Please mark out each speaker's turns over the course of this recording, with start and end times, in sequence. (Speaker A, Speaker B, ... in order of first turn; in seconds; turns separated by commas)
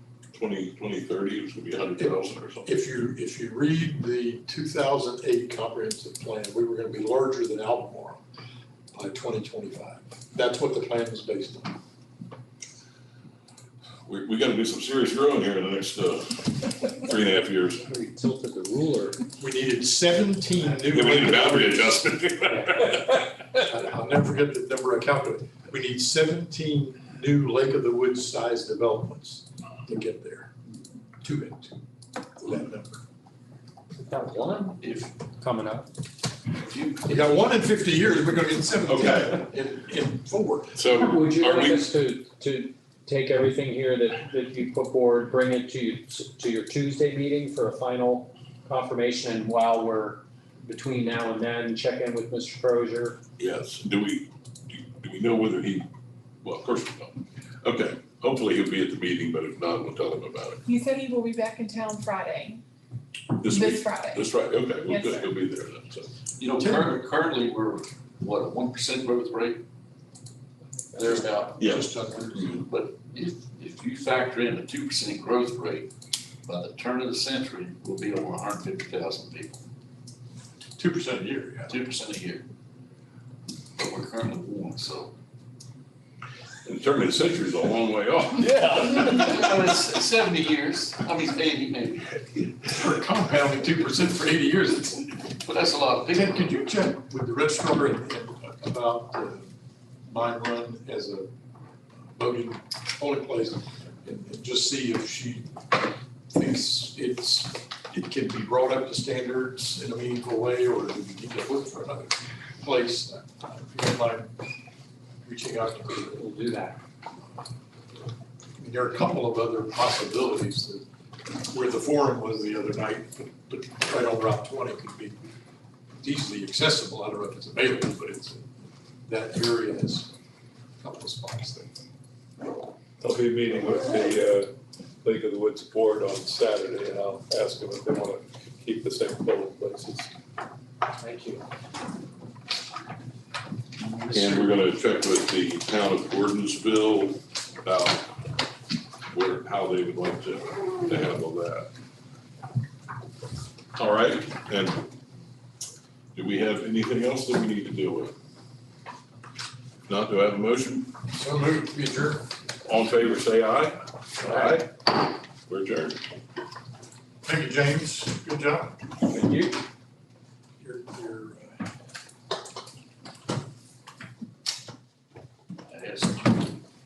Speaker A: 0.3-2.7, Speaker B: 2.0-8.2, Speaker B: 8.9-11.8, Speaker A: 14.1-17.8, Speaker C: 17.8-19.2, Speaker B: 19.4-22.0, Speaker A: 20.9-23.1, Speaker C: 22.5-23.0, Speaker B: 23.5-30.5, Speaker B: 31.2-31.8, Speaker B: 32.4-33.0, Speaker C: 34.0-34.8, Speaker D: 34.8-35.1, Speaker C: 35.4-35.9, Speaker D: 36.6-37.2, Speaker B: 37.0-40.8, Speaker A: 38.9-39.2, Speaker A: 40.8-41.9, Speaker C: 41.0-53.2, Speaker A: 53.4-55.9, Speaker A: 56.4-60.6, Speaker E: 60.7-62.6, Speaker A: 63.4-66.1, Speaker E: 63.4-64.3, Speaker E: 64.8-65.3, Speaker D: 66.4-69.6, Speaker B: 66.6-67.0, Speaker D: 71.0-71.6, Speaker B: 71.0-72.6, Speaker A: 72.4-72.6, Speaker D: 72.5-75.9, Speaker D: 76.5-79.6, Speaker B: 80.8-81.8, Speaker D: 81.7-82.5, Speaker D: 83.8-85.1, Speaker A: 86.6-88.7, Speaker D: 88.4-92.5, Speaker B: 92.6-95.3, Speaker D: 95.4-96.6, Speaker B: 96.1-99.5, Speaker B: 100.0-101.3, Speaker B: 102.1-105.5, Speaker B: 106.3-114.3, Speaker B: 115.2-116.2, Speaker C: 115.9-116.8, Speaker B: 118.6-120.8, Speaker B: 121.5-125.2, Speaker B: 126.0-128.5, Speaker B: 129.1-130.1, Speaker B: 130.8-131.7, Speaker F: 133.0-134.5, Speaker F: 135.0-140.1, Speaker C: 141.0-141.4, Speaker B: 143.9-144.5, Speaker A: 144.1-148.1, Speaker A: 149.1-151.7, Speaker A: 153.8-154.9, Speaker A: 156.1-158.1, Speaker A: 159.9-160.9, Speaker B: 161.1-162.3, Speaker A: 162.6-164.7, Speaker A: 165.5-166.0, Speaker B: 167.2-168.8, Speaker C: 169.1-169.6, Speaker B: 170.6-171.6, Speaker D: 175.7-176.6